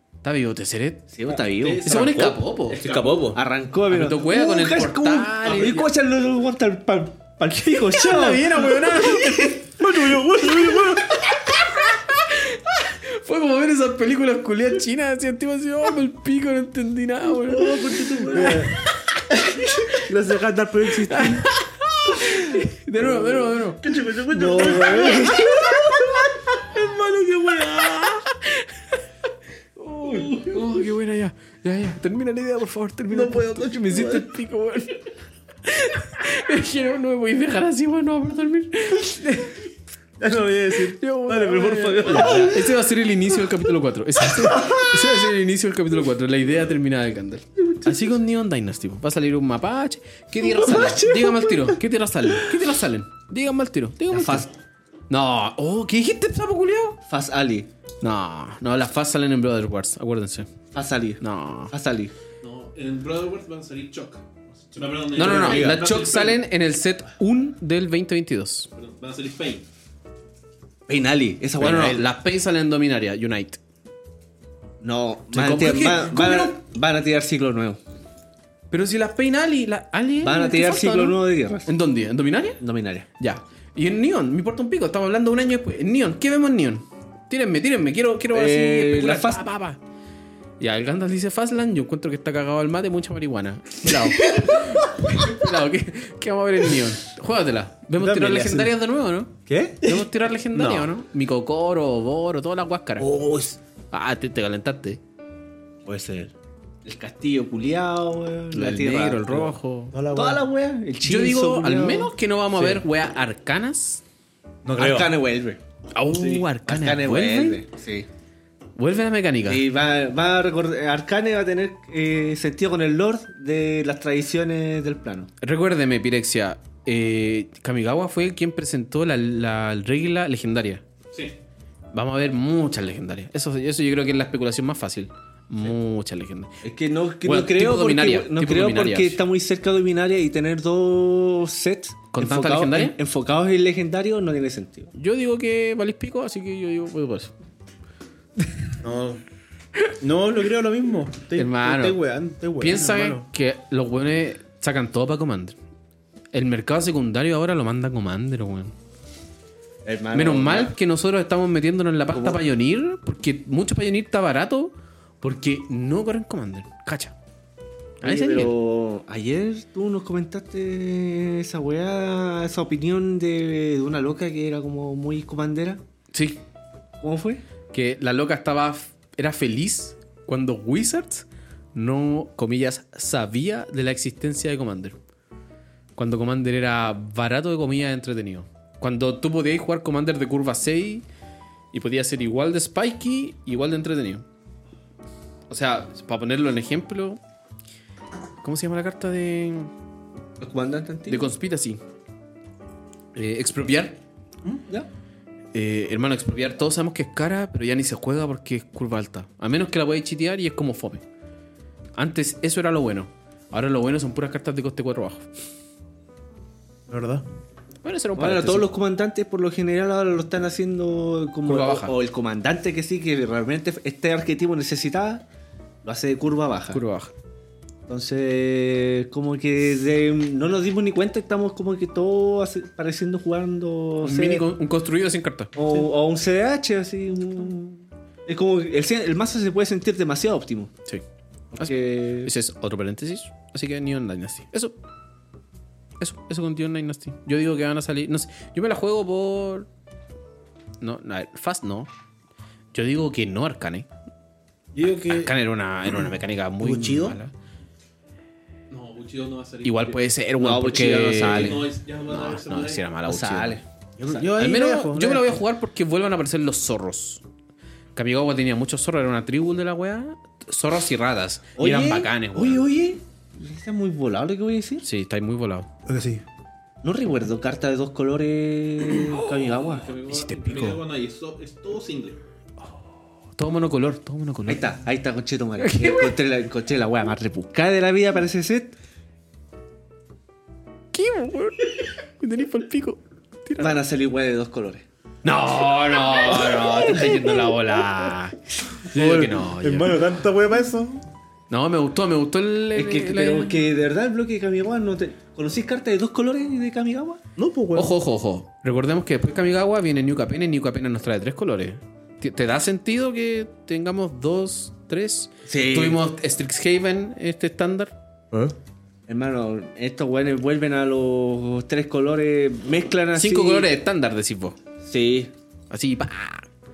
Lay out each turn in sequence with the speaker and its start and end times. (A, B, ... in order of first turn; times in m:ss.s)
0:00.2-0:01.0 A
0:01.1-0:01.9 B
0:01.3-0:03.3 C
0:01.8-0:02.8 A
0:02.1-0:03.4 D
0:03.3-0:09.6 B
0:03.9-0:05.8 A
0:05.5-0:05.8 C
0:08.0-0:09.7 A
0:09.8-0:11.2 D
0:10.4-0:17.8 A
0:17.5-0:18.7 D
0:17.6-0:18.7 B
0:18.4-0:18.8 A
0:19.3-0:21.5 B
0:21.1-0:23.8 A
0:23.8-0:25.6 D
0:24.3-0:26.5 B
0:24.6-0:25.1 C
0:25.3-0:29.0 A
0:29.8-0:35.0 A
0:30.1-0:30.5 C
0:33.1-0:34.3 D
0:35.6-0:39.6 A
0:40.2-0:42.5 D
0:41.0-0:54.5 A
0:42.0-0:42.7 B
0:44.4-0:44.9 B
0:50.4-0:51.8 B
0:54.1-0:54.5 B
0:55.1-0:57.0 A
0:57.1-0:57.7 B
0:58.0-1:00.5 A
1:00.7-1:02.1 B
1:01.2-1:01.7 A
1:02.4-1:06.4 C
1:05.1-1:08.7 A
1:05.2-1:05.8 D
1:08.7-1:09.6 C
1:10.9-1:12.1 B
1:11.6-1:13.6 A
1:14.8-1:17.8 B
1:15.3-1:16.6 A
1:18.7-1:22.6 A
1:20.2-1:21.7 B
1:22.6-1:23.1 B
1:23.2-1:29.8 A
1:28.3-1:29.4 B
1:30.6-1:43.1 A
1:34.0-1:34.8 B
1:38.0-1:38.7 D
1:39.4-1:39.9 D
1:40.5-1:40.9 D
1:43.0-1:43.6 D
1:43.9-1:45.0 A
1:45.8-1:46.3 D
1:46.8-1:49.5 B
1:48.5-1:49.9 A
1:49.9-1:50.4 D
1:50.1-1:52.1 B
1:51.0-1:54.0 A
1:52.6-1:52.8 D
1:54.6-1:55.1 D
1:54.8-1:55.6 B
1:55.9-1:57.6 A
1:56.2-1:58.1 B
1:58.8-1:59.6 A
1:59.4-2:05.3 B
2:05.4-2:10.8 A
2:11.9-2:16.5 A
2:16.6-2:24.9 B
2:17.2-2:19.2 A
2:22.1-2:23.0 A
2:24.9-2:27.3 A
2:28.8-2:29.2 D
2:30.0-2:33.2 D
2:31.4-2:32.0 A
2:32.6-2:35.6 A
2:36.3-2:38.7 A
2:39.8-2:40.7 B
2:40.1-2:47.1 A
2:42.1-2:42.4 B
2:48.0-2:48.5 A
2:48.0-2:55.8 B
2:56.1-2:56.4 A
2:57.0-2:57.4 B
2:57.7-3:05.0 A
3:06.0-3:11.0 A
3:11.7-3:14.2 A
3:15.5-3:17.2 A
3:18.4-3:19.7 A
3:20.4-3:21.3 B
3:21.1-3:21.8 A
3:23.1-3:24.0 A
3:25.5-3:31.0 A
3:32.0-3:35.3 A
3:36.9-3:37.2 D
3:37.8-3:38.7 A
3:38.2-3:45.2 B
3:41.4-3:41.9 A
3:45.8-3:46.8 B
3:46.7-3:47.1 A
3:47.9-3:54.5 B
3:54.0-3:55.5 A
3:55.5-4:00.7 B
4:01.5-4:02.3 B
4:01.6-4:04.7 A
4:06.0-4:09.7 A
4:10.8-4:11.9 A
4:12.7-4:13.9 A
4:14.7-4:15.3 D
4:15.1-4:17.3 A
4:16.6-4:17.2 D
4:18.7-4:20.1 C
4:19.6-4:23.6 A
4:20.4-4:21.7 B
4:20.7-4:22.9 C
4:23.1-4:24.3 B
4:24.0-4:25.4 D
4:24.4-4:27.2 A
4:27.9-4:32.6 A
4:31.6-4:34.8 B
4:34.8-4:35.7 A
4:35.8-4:36.2 D
4:36.8-4:40.0 B
4:39.3-4:42.2 C
4:40.1-4:40.8 A
4:43.4-4:44.7 A
4:44.5-4:48.7 B
4:45.6-4:46.2 A
4:50.9-4:53.8 A
4:53.6-4:54.8 B
4:55.2-4:58.4 A
4:56.0-4:57.9 B
4:58.9-5:01.0 D
4:58.9-5:00.1 A
5:01.5-5:03.6 A
5:02.8-5:07.2 B
5:07.4-5:07.9 D
5:07.7-5:17.9 A
5:15.4-5:16.0 B
5:19.1-5:23.7 B
5:23.1-5:24.6 A
5:24.8-5:25.3 B
5:25.7-5:26.5 A